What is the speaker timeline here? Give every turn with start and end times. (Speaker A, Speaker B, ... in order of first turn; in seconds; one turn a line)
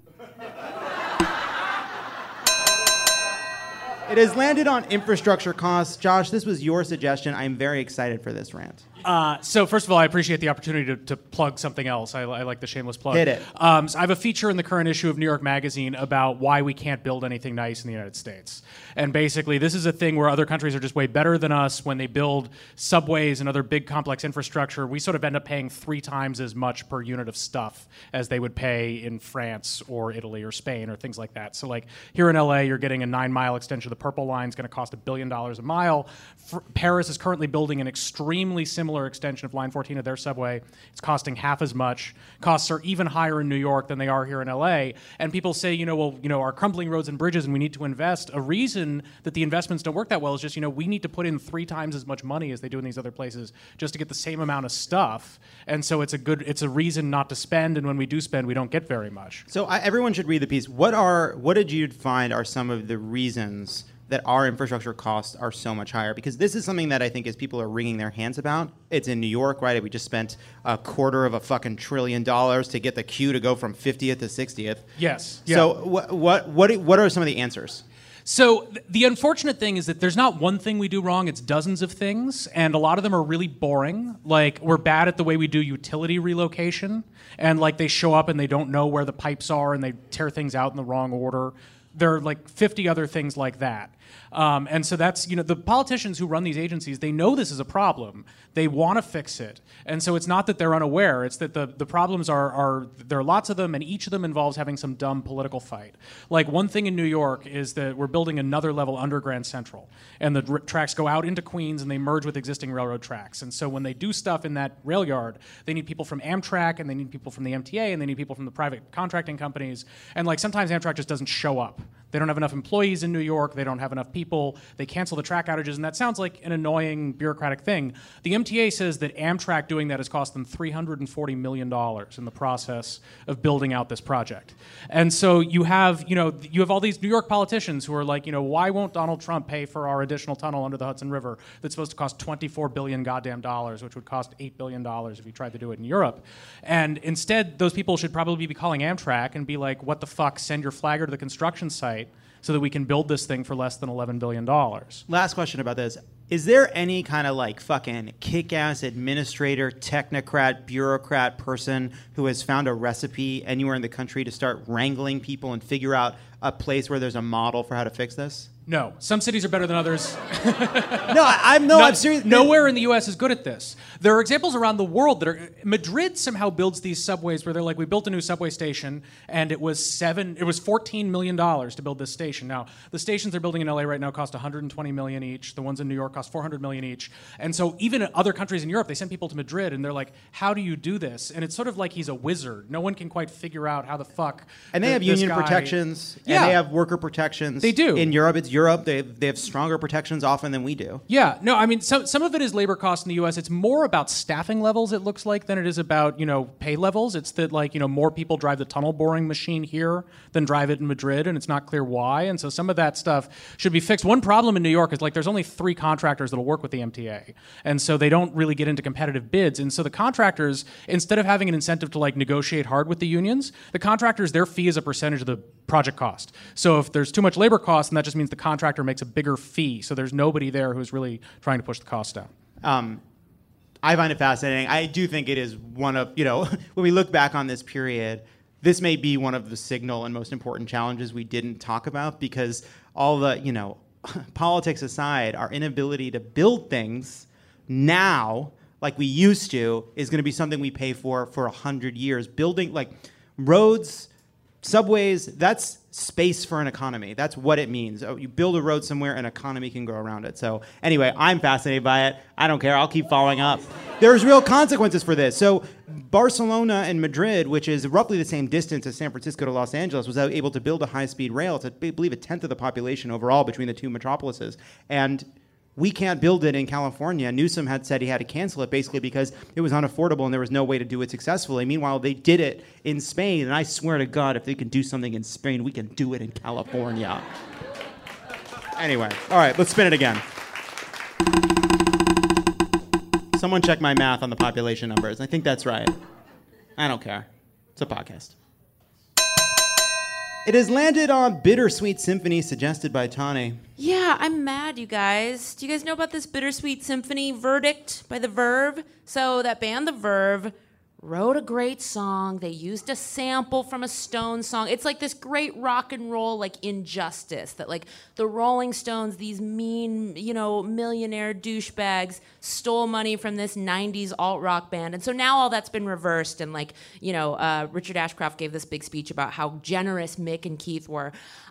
Speaker A: 4.1-8.8
Speaker B: 9.0-59.4
Speaker A: 13.1-13.4
Speaker A: 59.5-74.8
Speaker B: 75.0-75.7
Speaker A: 75.5-77.8
Speaker B: 78.2-155.0
Speaker A: 155.1-168.5
Speaker B: 168.7-171.2
Speaker A: 171.1-172.5
Speaker B: 171.7-196.6
Speaker A: 194.7-201.0
Speaker B: 197.6-198.1
Speaker B: 201.1-232.3
Speaker A: 232.6-233.0
Speaker A: 233.8-254.1
Speaker A: 254.6-287.2
Speaker A: 288.8-290.2
Speaker A: 293.3-295.9
Speaker A: 296.8-298.3
Speaker A: 300.4-303.6
Speaker C: 303.8-331.1